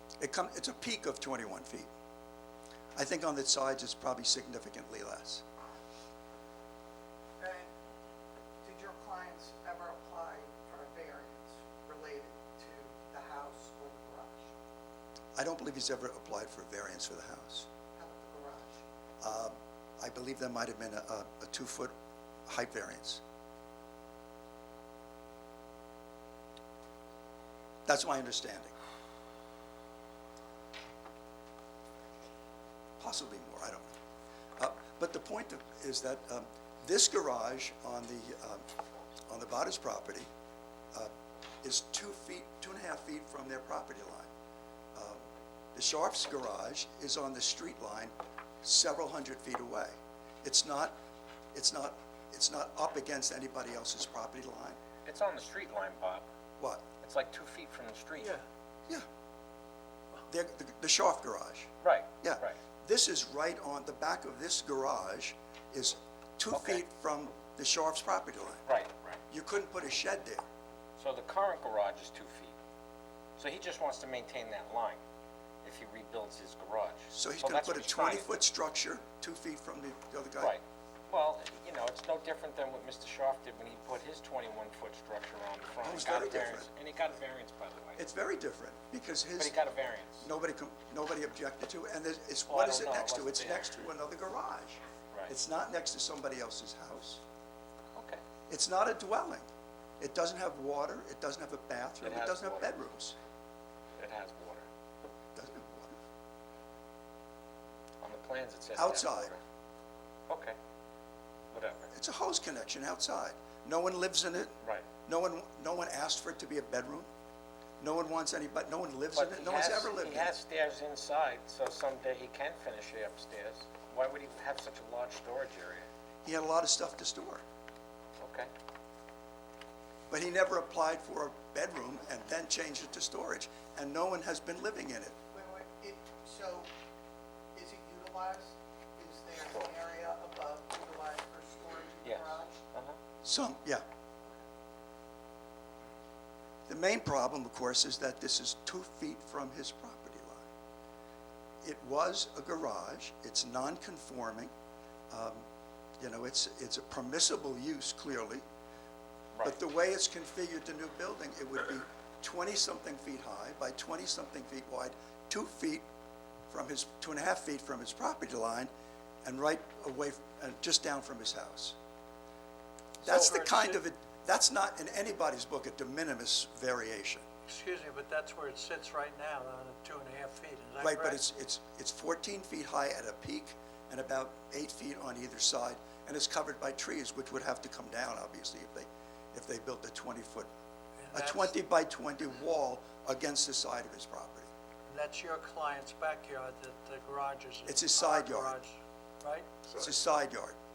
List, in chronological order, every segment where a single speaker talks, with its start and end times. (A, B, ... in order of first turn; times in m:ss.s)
0:00.2-0:01.9 A
0:03.0-0:05.4 A
0:07.4-0:07.7 B
0:08.6-0:14.5 B
0:15.4-0:17.7 A
0:18.0-0:18.8 B
0:19.2-0:21.9 A
0:22.5-0:23.2 A
0:27.9-0:28.7 A
0:33.0-0:33.9 A
0:34.6-0:38.6 A
0:39.3-0:40.3 A
0:41.6-0:44.3 A
0:45.0-0:45.2 A
0:45.7-0:51.0 A
0:51.5-0:54.8 A
0:55.0-0:56.2 C
0:56.6-0:56.8 A
0:57.0-0:58.4 C
0:58.2-0:58.4 D
1:00.3-1:01.7 A
1:01.8-1:02.6 C
1:02.2-1:08.6 A
1:06.5-1:06.8 C
1:08.7-1:09.2 C
1:09.3-1:10.4 A
1:11.0-1:12.6 C
1:13.4-1:15.0 C
1:15.6-1:18.4 C
1:17.1-1:20.6 A
1:20.4-1:28.0 C
1:25.8-1:26.7 A
1:28.0-1:29.6 A
1:29.4-1:30.3 C
1:30.2-1:37.2 A
1:32.5-1:33.8 C
1:37.9-1:38.2 C
1:38.5-1:39.4 A
1:40.0-1:43.2 A
1:42.0-1:42.8 C
1:44.0-1:44.7 C
1:45.4-1:46.0 A
1:48.0-1:49.4 C
1:48.8-1:49.3 A
1:50.3-1:50.6 C
1:51.5-1:51.9 C
1:51.9-1:54.6 A
1:55.0-1:57.1 A
1:57.8-2:00.3 A
1:59.1-2:05.9 C
2:06.2-2:07.4 A
2:08.2-2:08.5 C
2:10.1-2:15.2 A
2:15.3-2:16.7 B
2:17.5-2:22.6 B
2:19.4-2:19.7 C
2:22.0-2:23.0 C
2:23.2-2:23.8 A
2:26.7-2:30.4 A
2:31.6-2:34.5 A
2:35.1-2:35.4 A
2:36.0-2:38.4 A
2:39.4-2:45.8 A
2:46.5-2:48.7 A
2:49.2-2:51.8 A
2:53.0-2:53.8 D
2:53.0-2:57.2 A
2:57.5-3:01.2 D
3:00.8-3:10.5 A
3:11.0-3:11.5 D
3:11.1-3:14.5 A
3:14.9-3:19.6 D
3:17.7-3:18.6 A
3:19.7-3:20.6 A